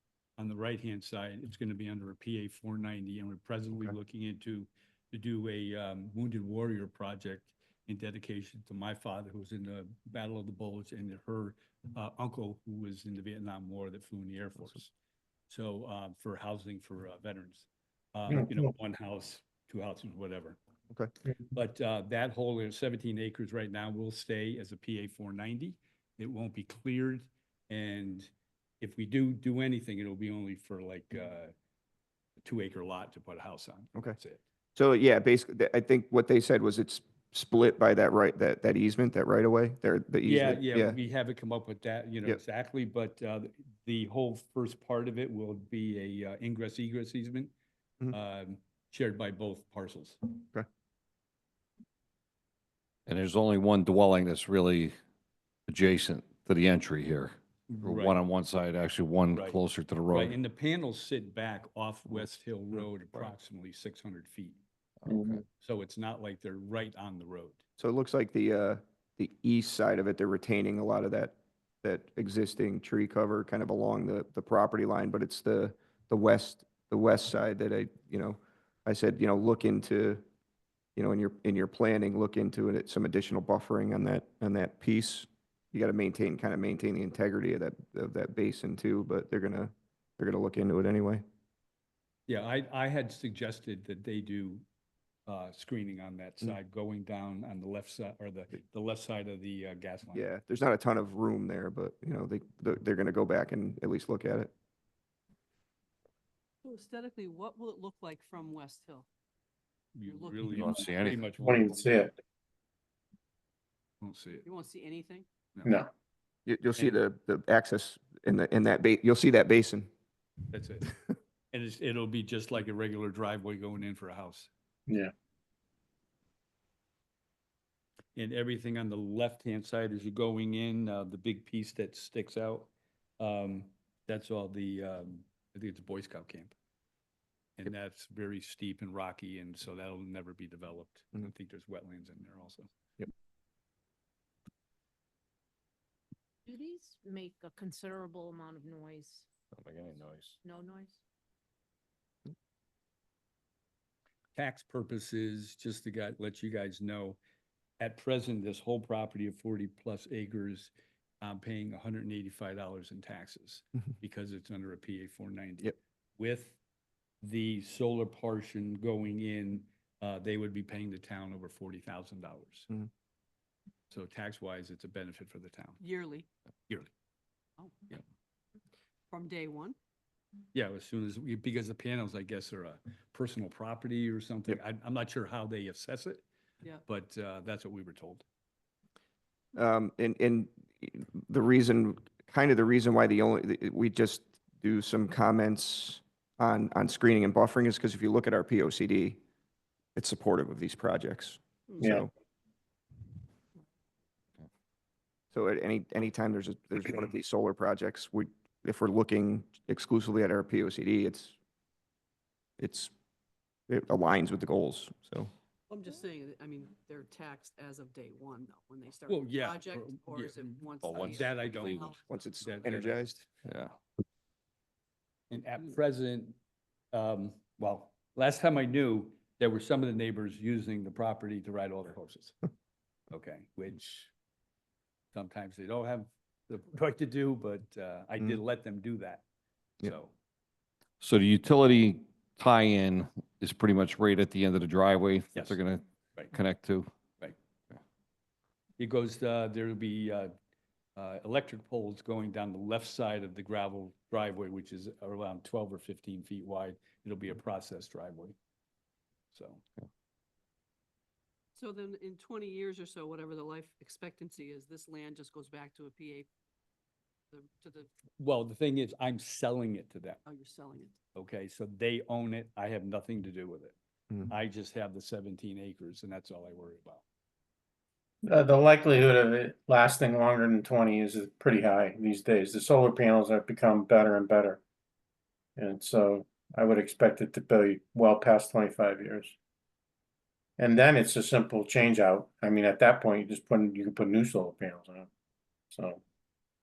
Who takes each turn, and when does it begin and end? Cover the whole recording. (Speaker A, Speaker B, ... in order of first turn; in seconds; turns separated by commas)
Speaker A: 0.4-14.9, Speaker A: 15.5-20.6, Speaker A: 21.5-28.3, Speaker A: 28.8-31.5, Speaker A: 32.4-34.4, Speaker B: 34.7-41.0, Speaker A: 40.2-47.5, Speaker A: 48.1-50.2, Speaker C: 53.1-54.9, Speaker C: 55.7-60.4, Speaker A: 57.7-58.2, Speaker A: 59.3-59.6, Speaker A: 60.1-64.6, Speaker C: 65.0-65.4, Speaker D: 65.1-65.3, Speaker A: 65.6-67.6, Speaker B: 67.8-80.2, Speaker B: 81.0-91.2, Speaker A: 92.3-94.6, Speaker A: 95.3-100.2, Speaker B: 100.1-104.5, Speaker E: 106.6-109.1, Speaker A: 109.9-112.1, Speaker E: 110.0-111.2, Speaker C: 110.5-111.3, Speaker D: 111.4-112.1, Speaker A: 114.0-114.5, Speaker E: 114.4-115.3, Speaker B: 116.5-119.9, Speaker A: 120.5-121.0, Speaker A: 121.5-124.5, Speaker A: 128.1-136.5, Speaker A: 137.6-142.7, Speaker F: 146.4-149.3, Speaker C: 149.7-150.3, Speaker F: 150.4-151.0, Speaker A: 154.3-157.2, Speaker A: 157.8-166.6, Speaker A: 167.2-172.7, Speaker A: 173.9-175.8, Speaker E: 175.8-176.3, Speaker E: 177.6-177.8, Speaker E: 179.1-179.8, Speaker A: 180.5-186.2, Speaker A: 186.8-188.2, Speaker B: 189.5-199.2, Speaker B: 199.9-202.1, Speaker D: 201.8-202.1, Speaker B: 205.3-211.3, Speaker B: 212.6-212.9, Speaker B: 213.7-215.3, Speaker E: 215.7-223.0, Speaker A: 219.1-221.9, Speaker C: 220.8-222.0, Speaker B: 222.1-223.3, Speaker A: 222.5-222.9, Speaker C: 223.4-223.7, Speaker A: 225.3-226.3, Speaker A: 226.9-232.4, Speaker A: 233.1-234.1, Speaker A: 235.1-239.2, Speaker A: 239.8-240.1, Speaker C: 241.0-246.9, Speaker A: 248.8-250.3, Speaker A: 250.9-258.3, Speaker A: 259.3-259.6, Speaker E: 261.6-266.3, Speaker E: 267.3-267.9, Speaker A: 268.2-270.2, Speaker E: 270.2-271.0, Speaker A: 271.1-277.0, Speaker D: 278.2-284.6, Speaker D: 285.6-289.3, Speaker D: 290.6-295.1, Speaker D: 295.7-296.0